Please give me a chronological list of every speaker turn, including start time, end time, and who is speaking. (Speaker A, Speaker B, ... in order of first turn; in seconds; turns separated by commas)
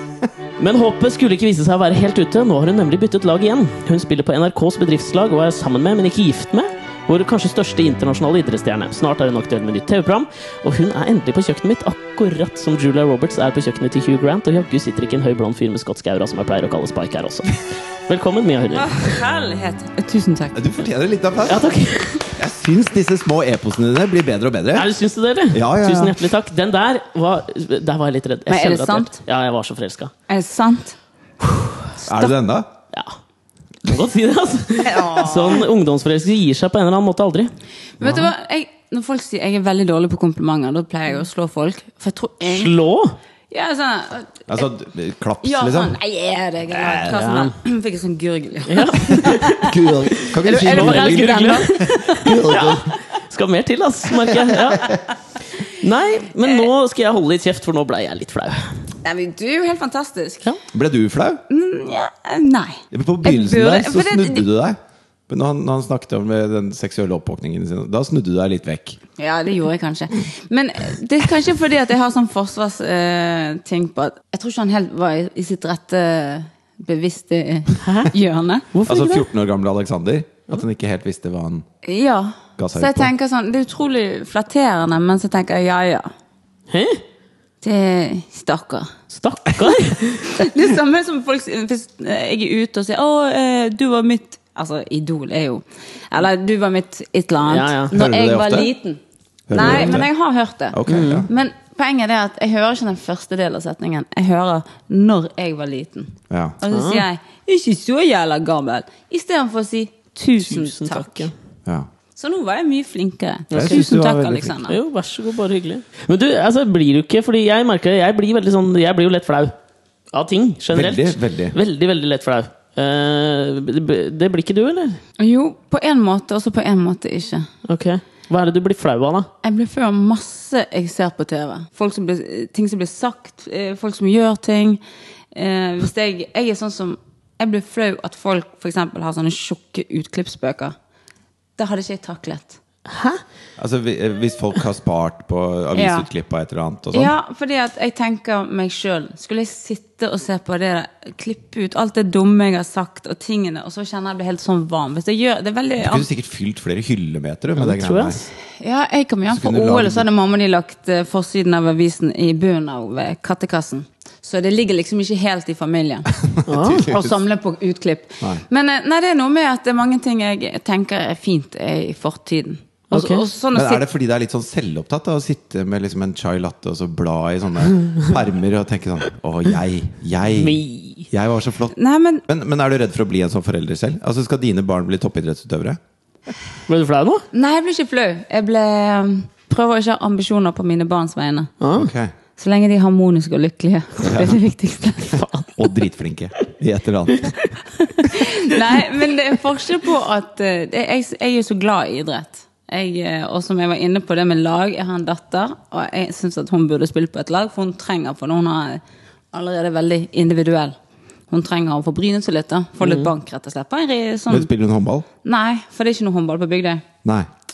Speaker A: 0.6-19.2, Speaker B: 18.8-20.6, Speaker C: 20.5-21.7, Speaker A: 21.5-22.3, Speaker C: 22.4-24.9, Speaker A: 24.8-30.1, Speaker C: 25.5-26.2, Speaker B: 28.5-29.2, Speaker B: 30.3-31.0, Speaker B: 32.0-32.3, Speaker C: 32.0-32.7, Speaker A: 33.8-37.5, Speaker B: 34.8-35.7, Speaker B: 38.0-42.8, Speaker A: 42.5-43.2, Speaker B: 43.5-44.5, Speaker C: 44.5-46.0, Speaker B: 45.4-49.7, Speaker C: 46.7-47.2, Speaker A: 47.1-47.5, Speaker A: 48.7-55.0, Speaker C: 49.3-53.0, Speaker B: 50.4-52.4, Speaker C: 54.3-54.8, Speaker A: 55.6-58.7, Speaker B: 59.0-60.5, Speaker C: 60.7-61.4, Speaker B: 61.5-64.5, Speaker C: 62.9-64.8, Speaker C: 65.3-69.0, Speaker B: 69.2-78.7, Speaker A: 77.8-78.1, Speaker A: 78.7-79.3, Speaker C: 78.9-81.7, Speaker B: 81.8-86.1, Speaker C: 82.6-83.1, Speaker A: 86.7-87.0, Speaker B: 87.6-88.9, Speaker A: 89.1-90.5, Speaker B: 90.0-99.0, Speaker A: 97.5-97.9, Speaker C: 97.9-98.7, Speaker C: 99.5-100.1, Speaker B: 99.5-111.3, Speaker A: 99.6-100.0, Speaker C: 100.7-101.3, Speaker A: 100.9-101.3, Speaker C: 106.3-106.6, Speaker A: 106.7-107.0, Speaker A: 110.4-111.3, Speaker B: 112.2-114.8, Speaker A: 113.5-113.9, Speaker C: 113.5-114.6, Speaker A: 114.7-119.5, Speaker A: 120.1-125.0, Speaker C: 120.7-121.6, Speaker B: 125.2-127.5, Speaker A: 127.7-129.3, Speaker B: 129.4-134.8, Speaker B: 135.3-140.8, Speaker B: 141.6-142.6, Speaker A: 142.9-143.2, Speaker C: 143.6-147.1, Speaker B: 145.7-146.1, Speaker B: 146.9-156.1, Speaker C: 155.8-158.2, Speaker A: 157.6-158.2, Speaker B: 158.6-173.8, Speaker C: 159.3-160.1, Speaker C: 166.2-167.2, Speaker A: 166.5-166.9, Speaker A: 172.9-173.2, Speaker C: 173.5-185.8, Speaker A: 180.3-181.1, Speaker B: 181.7-182.2, Speaker A: 186.7-187.2, Speaker B: 187.3-191.5, Speaker A: 191.6-191.9, Speaker C: 191.7-192.1, Speaker B: 192.4-195.2, Speaker C: 194.0-194.4, Speaker A: 195.1-195.5, Speaker C: 195.6-197.3, Speaker B: 197.8-210.8, Speaker B: 211.3-214.5, Speaker A: 212.8-213.1, Speaker C: 214.3-215.1, Speaker B: 215.2-216.8